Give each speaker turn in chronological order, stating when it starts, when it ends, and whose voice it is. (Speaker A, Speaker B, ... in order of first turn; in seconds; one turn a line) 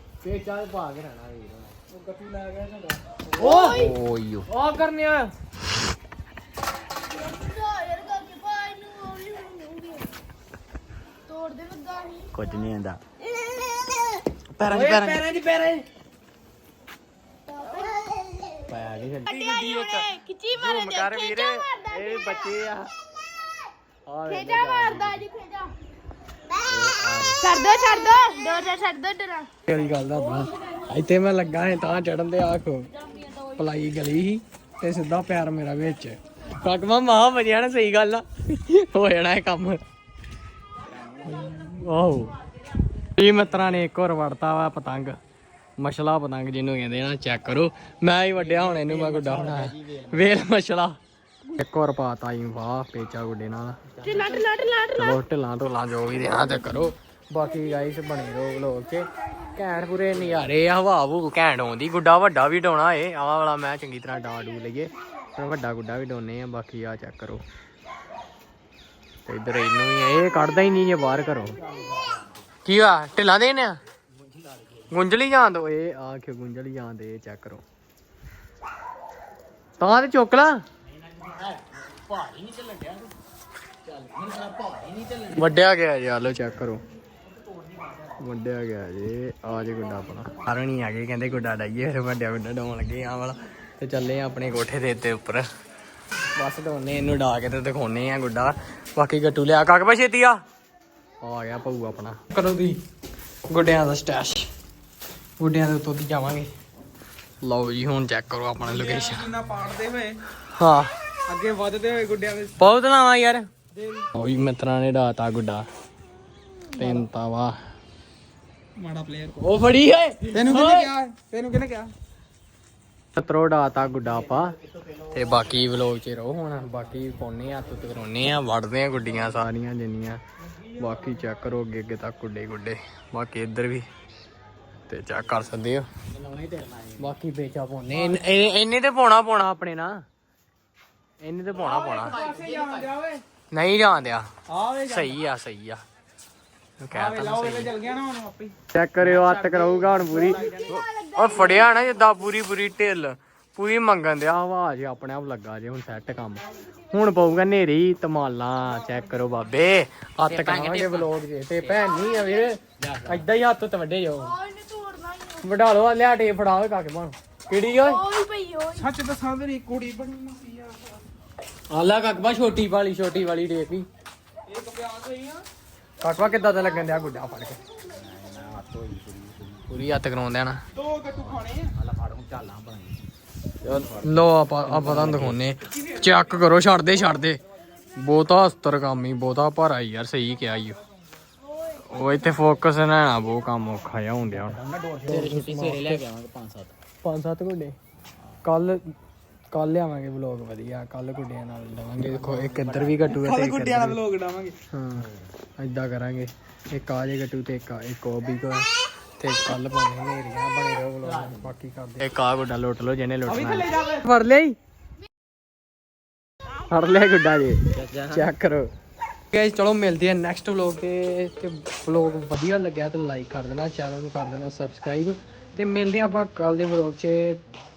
Speaker A: 0.2-3.9
Speaker B: 3.4-4.0
Speaker C: 3.6-4.5
Speaker A: 4.5-5.3
Speaker B: 7.1-10.1
Speaker B: 11.3-12.3
Speaker C: 12.3-13.0
Speaker B: 13.4-14.2
Speaker C: 14.6-15.3
Speaker A: 14.8-15.1
Speaker D: 14.9-15.8
Speaker B: 17.5-18.6
Speaker A: 18.7-22.9
Speaker B: 19.3-22.6
Speaker A: 24.1-25.3
Speaker B: 24.3-25.7
Speaker A: 26.8-27.4
Speaker B: 27.4-29.5
Speaker A: 29.7-32.9
Speaker A: 33.4-39.8
Speaker A: 41.2-42.4
Speaker A: 43.2-45.2
Speaker A: 45.8-51.0
Speaker C: 49.0-49.3
Speaker A: 51.5-53.8
Speaker B: 54.0-55.2
Speaker A: 55.0-67.4
Speaker A: 69.3-71.6
Speaker A: 72.7-73.8
Speaker A: 74.9-77.6
Speaker A: 79.8-80.6
Speaker C: 82.1-83.0
Speaker A: 85.0-86.8
Speaker A: 88.2-95.5
Speaker A: 96.4-100.4
Speaker A: 101.2-102.8
Speaker A: 103.4-104.5
Speaker A: 105.4-106.5
Speaker A: 107.4-109.4
Speaker D: 108.7-110.2
Speaker A: 110.4-110.9
Speaker D: 111.3-112.6
Speaker A: 112.6-113.5
Speaker D: 113.8-114.1
Speaker A: 114.1-115.7
Speaker A: 116.7-117.6
Speaker D: 118.8-119.3
Speaker A: 119.3-120.9
Speaker D: 120.3-121.9
Speaker A: 123.2-124.5
Speaker A: 125.1-130.2
Speaker A: 130.7-133.9
Speaker A: 134.9-135.9
Speaker C: 136.2-136.9
Speaker A: 136.9-140.0
Speaker A: 141.2-142.4
Speaker D: 141.9-143.2
Speaker A: 143.5-145.8
Speaker D: 144.5-145.1
Speaker A: 146.8-147.8
Speaker D: 146.9-148.6
Speaker A: 148.7-164.4
Speaker D: 150.3-150.6
Speaker C: 160.3-161.1
Speaker C: 162.8-163.2
Speaker B: 164.3-165.4
Speaker A: 165.4-168.1
Speaker B: 167.8-168.9
Speaker D: 168.8-170.8
Speaker A: 171.7-173.9
Speaker D: 174.5-175.4
Speaker A: 176.0-177.6
Speaker C: 177.9-179.7
Speaker A: 179.7-180.6
Speaker D: 180.8-181.7
Speaker C: 181.8-183.0
Speaker C: 183.7-184.2
Speaker A: 183.9-187.4
Speaker C: 184.8-185.3
Speaker A: 188.0-190.8
Speaker A: 191.9-196.0
Speaker C: 194.6-196.7
Speaker A: 197.0-197.8
Speaker A: 198.4-198.9
Speaker A: 199.5-204.0
Speaker C: 202.2-203.1
Speaker D: 203.1-204.6
Speaker A: 204.7-208.7
Speaker A: 209.2-214.6
Speaker D: 213.4-213.9
Speaker A: 216.7-218.7
Speaker C: 217.8-218.3
Speaker A: 219.3-227.4